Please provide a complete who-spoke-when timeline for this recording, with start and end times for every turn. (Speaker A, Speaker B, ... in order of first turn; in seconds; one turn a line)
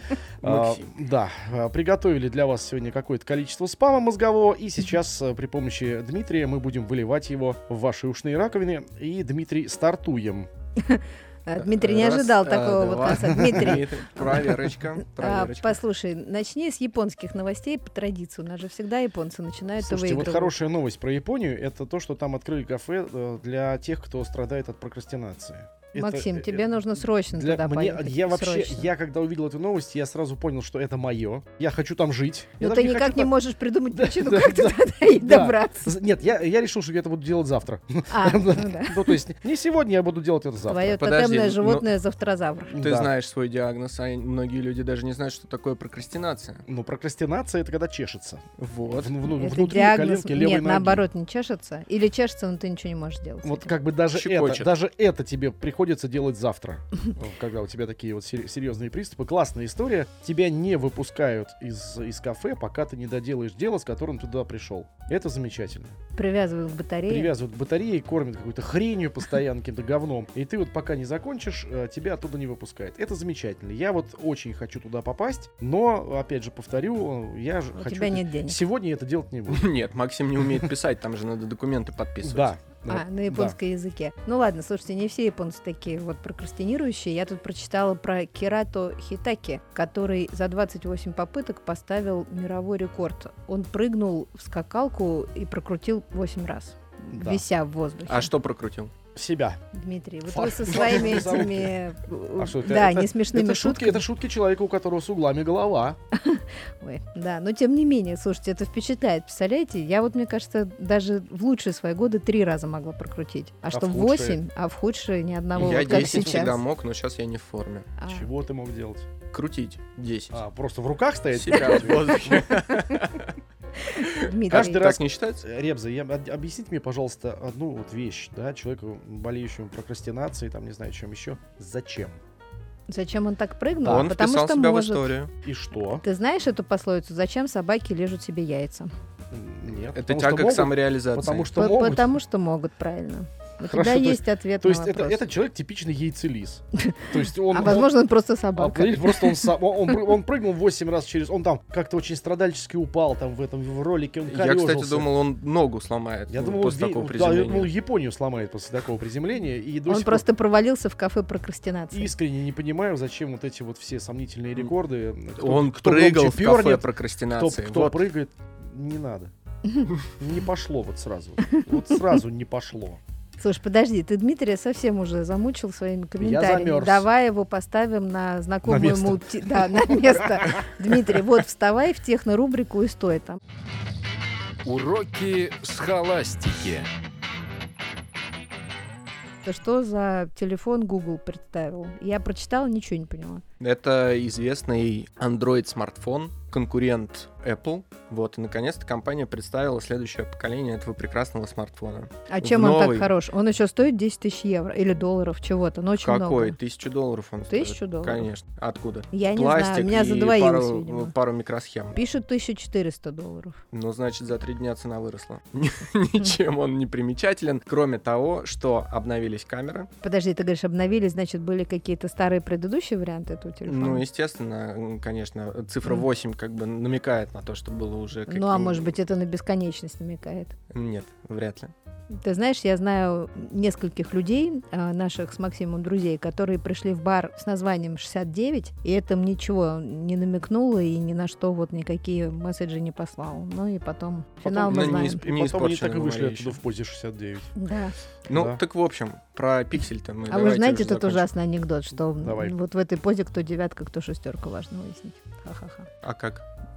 Speaker A: 0.4-10.5
Speaker B: 0.4-0.9
Speaker C: 10.8-14.5
Speaker B: 11.6-15.8
Speaker A: 13.2-13.8
Speaker C: 15.1-20.5
Speaker A: 19.8-26.7
Speaker C: 25.9-28.9
Speaker A: 27.3-33.3
Speaker C: 32.6-35.9
Speaker A: 33.9-41.0
Speaker C: 38.1-39.1
Speaker C: 40.7-42.8
Speaker B: 41.0-41.9
Speaker A: 42.7-43.1
Speaker B: 42.8-46.6
Speaker A: 46.7-51.0
Speaker B: 48.6-49.1
Speaker C: 49.3-53.7
Speaker A: 53.4-66.0
Speaker B: 54.1-54.7
Speaker C: 66.2-67.3
Speaker A: 67.1-79.7
Speaker C: 77.8-78.6
Speaker B: 79.5-82.5
Speaker A: 82.2-83.6
Speaker C: 82.9-98.3
Speaker A: 97.1-97.4
Speaker B: 98.1-98.9
Speaker A: 99.2-99.6
Speaker C: 99.7-104.0
Speaker A: 100.3-101.8
Speaker B: 100.7-101.4
Speaker A: 102.4-106.0
Speaker C: 106.1-116.6
Speaker A: 113.7-114.4
Speaker B: 115.5-117.9
Speaker C: 118.0-118.3
Speaker A: 118.1-119.1
Speaker B: 119.3-120.4
Speaker A: 120.3-122.6
Speaker B: 121.3-123.3
Speaker C: 123.9-124.9
Speaker B: 124.0-125.4
Speaker A: 124.5-132.2
Speaker C: 132.9-135.1
Speaker B: 133.8-135.3
Speaker A: 133.8-134.1
Speaker A: 135.4-136.0
Speaker C: 136.0-138.9
Speaker A: 139.3-142.2
Speaker B: 139.9-141.5
Speaker C: 141.6-145.2
Speaker A: 143.6-147.9
Speaker C: 146.8-149.5
Speaker A: 148.6-155.1
Speaker B: 154.3-157.7
Speaker A: 156.3-160.3
Speaker C: 159.9-162.1
Speaker A: 161.9-169.3
Speaker B: 165.4-168.0
Speaker A: 170.2-173.0
Speaker C: 173.4-183.4
Speaker A: 176.2-177.1
Speaker A: 178.6-180.2
Speaker D: 184.7-186.9
Speaker C: 189.4-193.4
Speaker B: 193.6-203.1
Speaker C: 202.3-206.6
Speaker B: 206.0-212.0
Speaker C: 207.5-208.3
Speaker C: 209.1-211.1
Speaker C: 211.9-213.6
Speaker B: 213.7-219.9
Speaker C: 220.0-224.0
Speaker B: 223.7-228.9
Speaker C: 228.3-230.5
Speaker B: 230.7-231.7
Speaker C: 232.1-245.2
Speaker B: 244.4-246.6
Speaker A: 244.4-247.5
Speaker C: 247.6-247.9
Speaker B: 248.3-251.3
Speaker A: 248.3-248.6
Speaker C: 250.3-255.9
Speaker A: 252.2-252.5
Speaker B: 256.0-256.4